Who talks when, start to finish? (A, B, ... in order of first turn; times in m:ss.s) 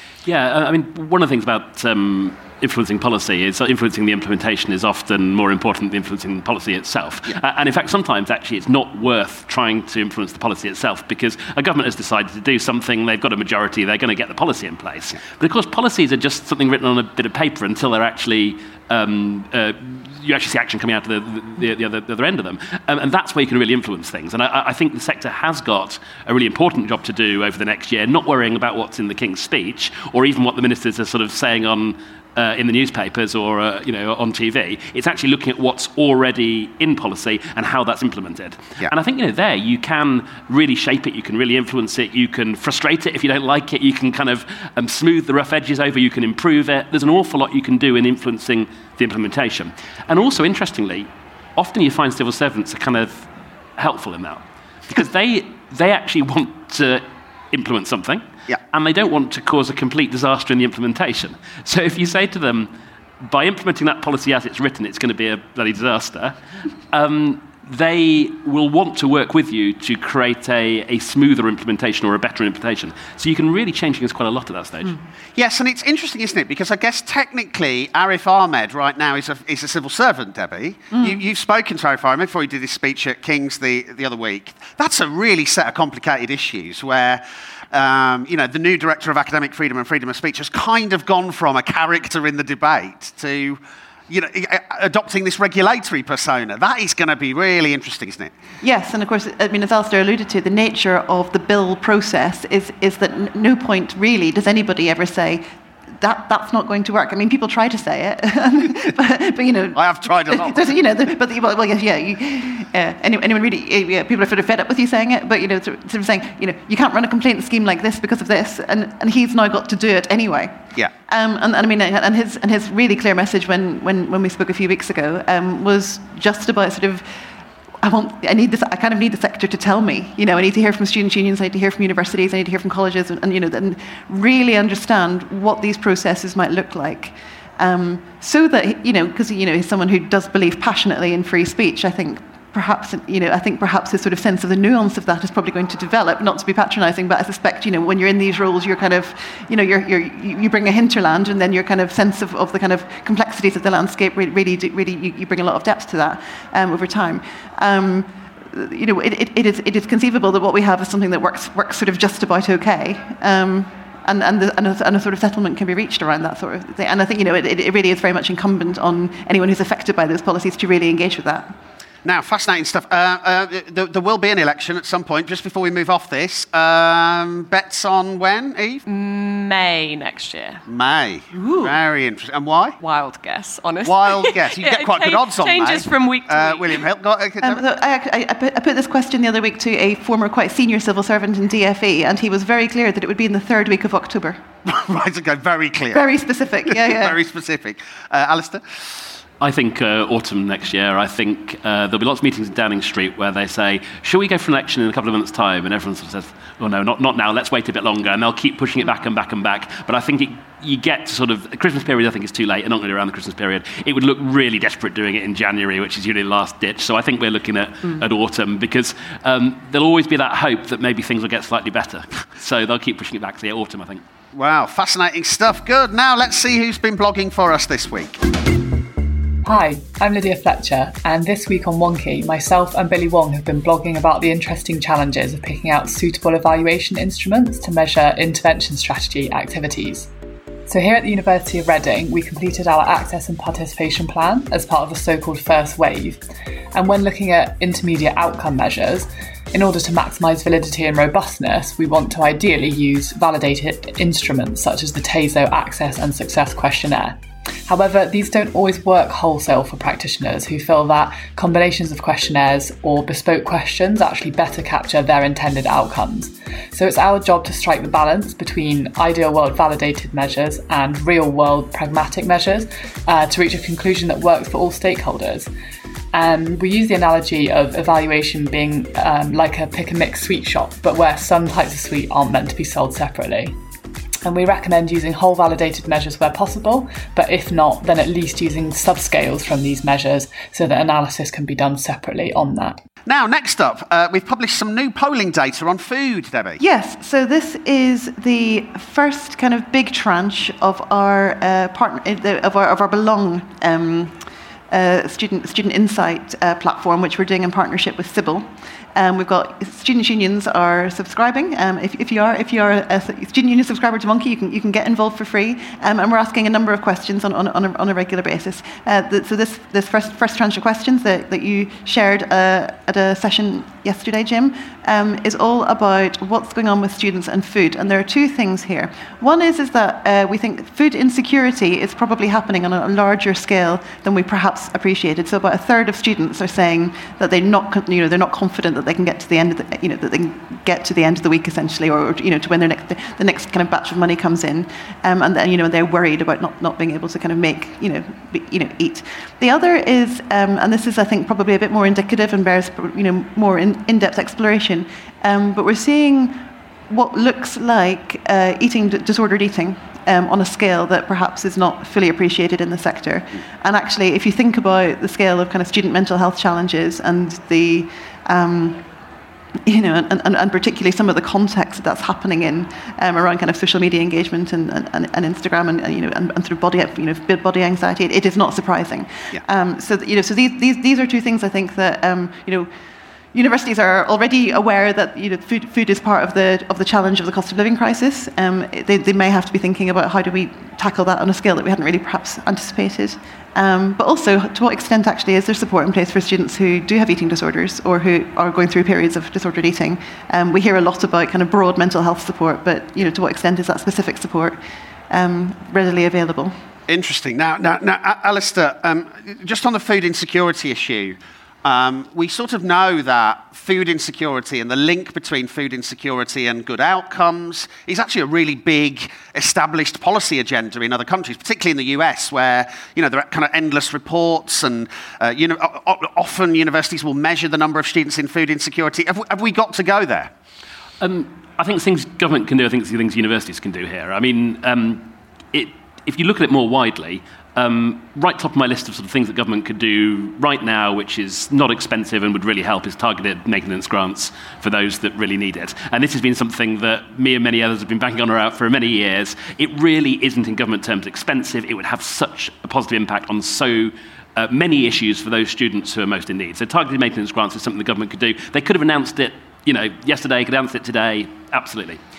0:00.2-1:06.4 A
1:06.9-1:15.0 A
1:15.4-1:38.3 B
1:38.6-1:45.5 C
1:46.0-2:07.1 C
1:49.7-1:50.8 B
2:07.8-2:51.5 C
2:52.0-2:58.8 B
2:58.9-3:00.6 D
3:00.7-3:02.8 B
3:01.3-3:01.8 D
3:02.8-3:06.8 D
3:03.8-3:07.6 B
3:07.4-3:14.4 C
3:14.6-3:16.0 B
3:15.9-3:17.2 C
3:16.7-3:18.6 B
3:19.4-3:44.0 A
3:44.3-3:48.2 B
3:49.4-4:00.1 E
4:00.7-4:06.2 E
4:06.7-4:35.5 E
4:36.1-4:43.6 E
4:44.2-4:52.8 E
4:53.1-4:56.6 B
4:56.6-5:04.2 C
5:04.7-6:08.8 C
6:09.7-6:22.7 C
6:23.3-6:44.6 C
6:45.1-6:46.6 C
6:46.9-7:10.3 B
7:11.0-7:42.0 A